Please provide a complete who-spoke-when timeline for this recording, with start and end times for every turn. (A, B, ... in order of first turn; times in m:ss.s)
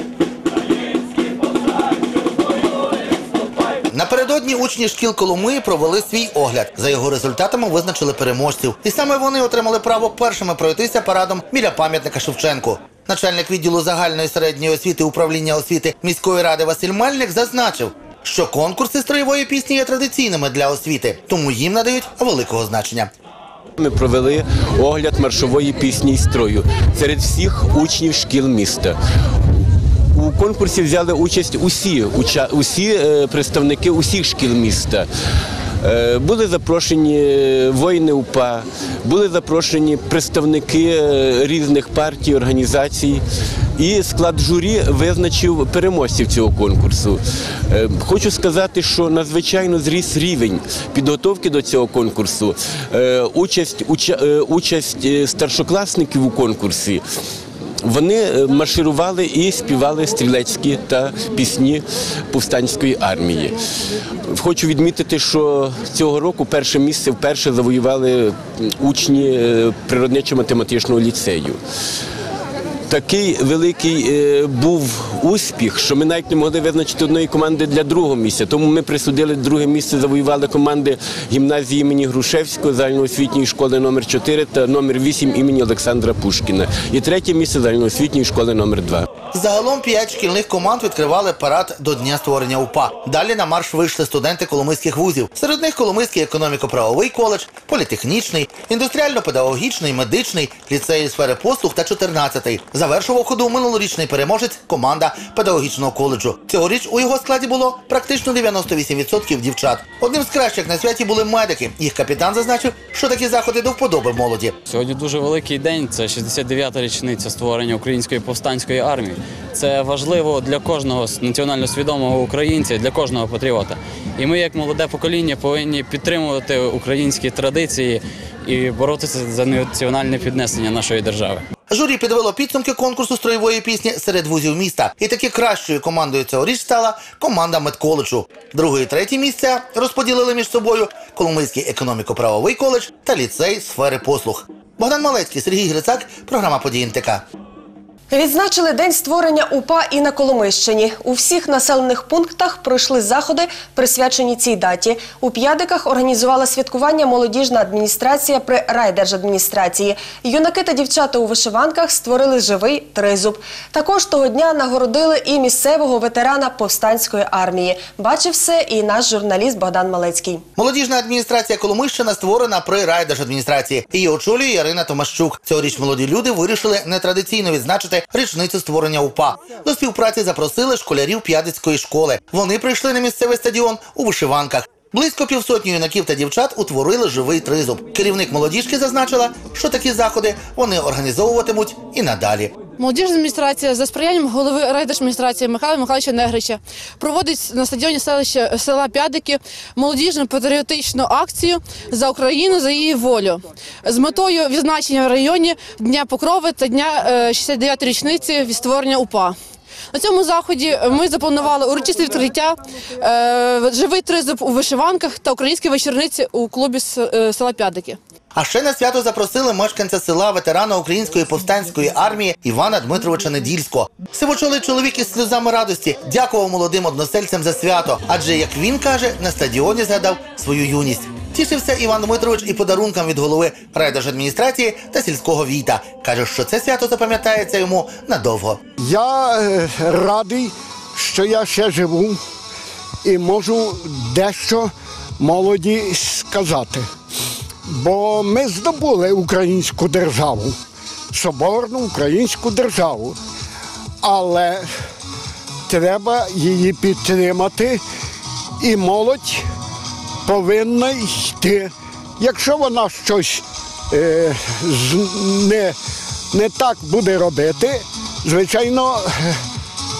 0:03.9-0:23.1 A
0:23.8-0:29.0 B
0:30.1-0:35.1 B
0:35.8-0:43.2 B
0:43.8-0:57.0 B
0:57.8-1:03.6 B
1:04.2-1:11.6 B
1:12.9-1:29.1 B
1:29.3-1:54.6 A
1:54.6-2:11.4 C
2:11.7-2:27.2 A
2:28.1-2:50.4 D
2:50.6-3:12.5 A
3:12.8-3:29.3 E
3:29.9-3:38.0 E
3:38.3-3:58.6 A
3:58.8-4:02.2 F
4:03.0-4:06.9 F
4:07.7-4:10.6 F
4:11.1-4:13.2 F
4:14.0-4:14.7 F
4:15.7-4:17.8 F
4:18.6-4:19.4 F
4:20.2-4:25.8 F
4:26.3-4:29.4 F